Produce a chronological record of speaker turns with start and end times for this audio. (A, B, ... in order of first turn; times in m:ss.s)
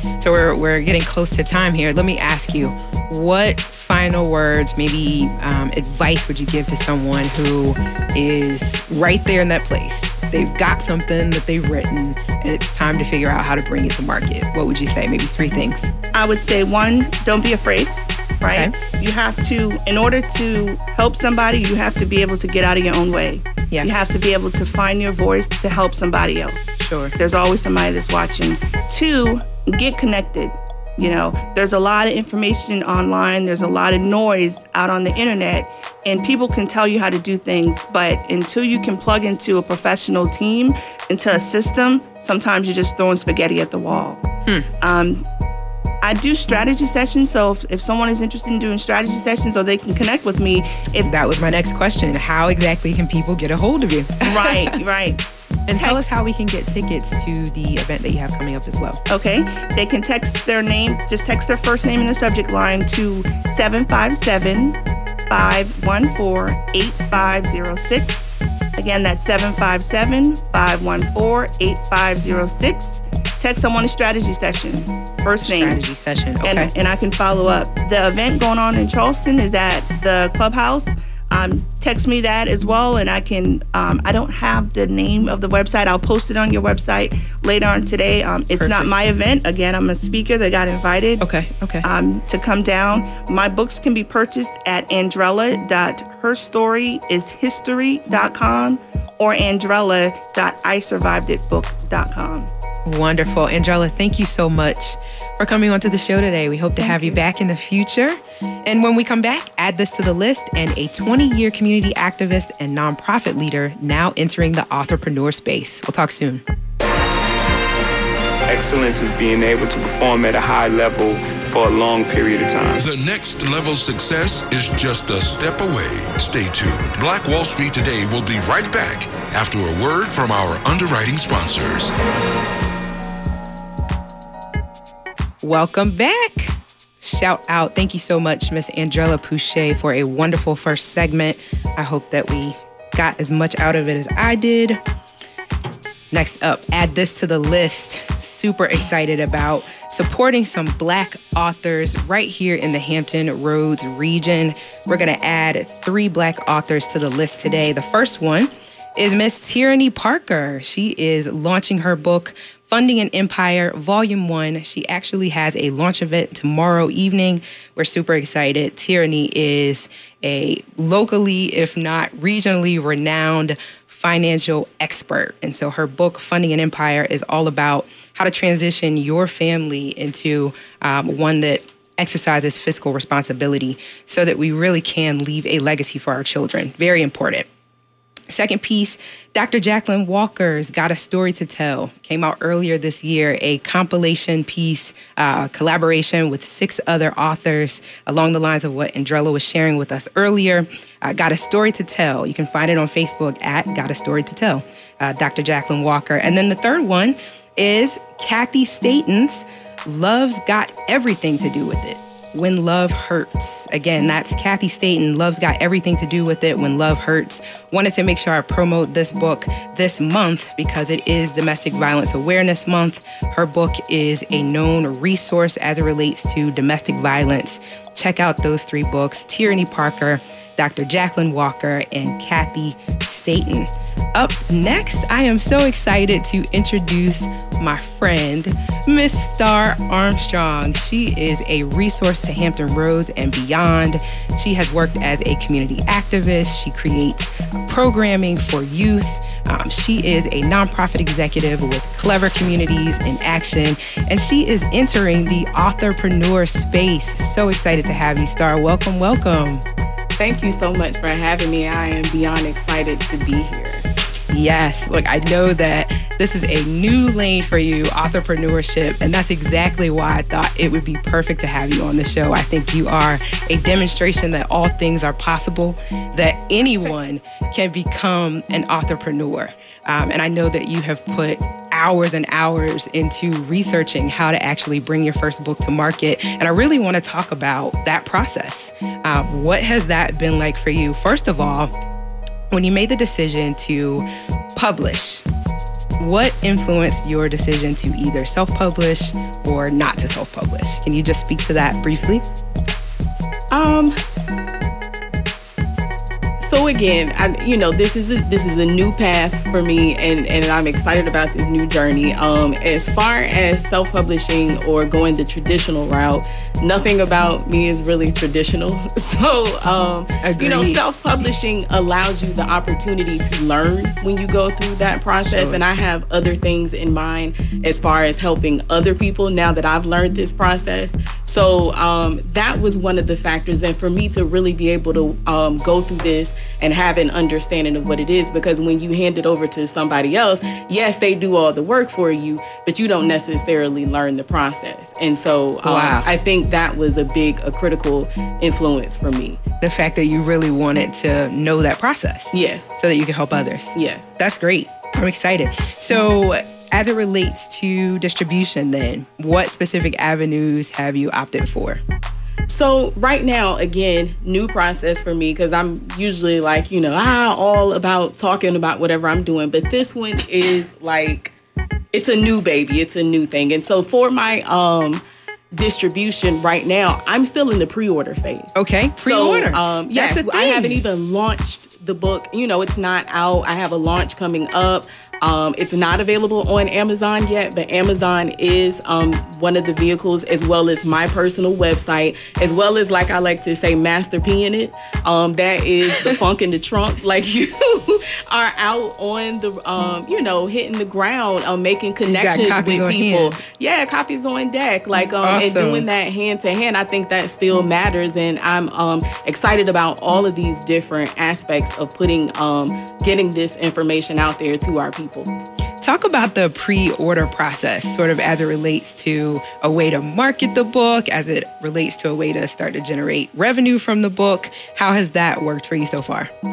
0:00.2-0:15.9 A
0:16.1-0:26.6 B
0:26.8-0:27.2 A
0:27.2-0:44.2 B
0:44.8-0:45.3 B
0:46.0-0:51.1 B
0:51.0-0:54.8 A
0:54.2-0:56.1 B
0:55.7-0:59.0 A
0:59.1-1:15.8 B
1:15.4-1:16.7 A
1:16.4-1:31.2 B
1:28.6-1:28.9 A
1:31.2-1:31.9 A
1:31.8-1:42.5 B
1:42.9-1:56.4 A
1:46.8-1:47.2 B
1:58.5-2:02.8 C
2:02.8-2:11.9 D
2:15.4-2:24.8 A
2:26.1-3:07.5 A
3:08.3-4:19.6 A
4:20.2-4:23.9 E
4:24.3-4:51.7 A
4:52.5-4:54.0 A
4:54.6-4:55.2 A
4:56.0-5:02.2 A
5:03.5-5:04.0 E
5:06.4-5:49.4 E
5:20.2-5:20.8 A
5:25.2-5:25.6 A
5:45.6-5:46.1 A
5:49.6-6:01.8 A
5:52.3-5:52.8 E
5:53.8-5:54.1 E
6:02.5-6:11.3 E
6:11.9-6:55.3 E
6:18.6-6:20.8 A
6:42.1-6:43.4 A
6:45.2-6:45.9 A
6:55.8-7:06.3 A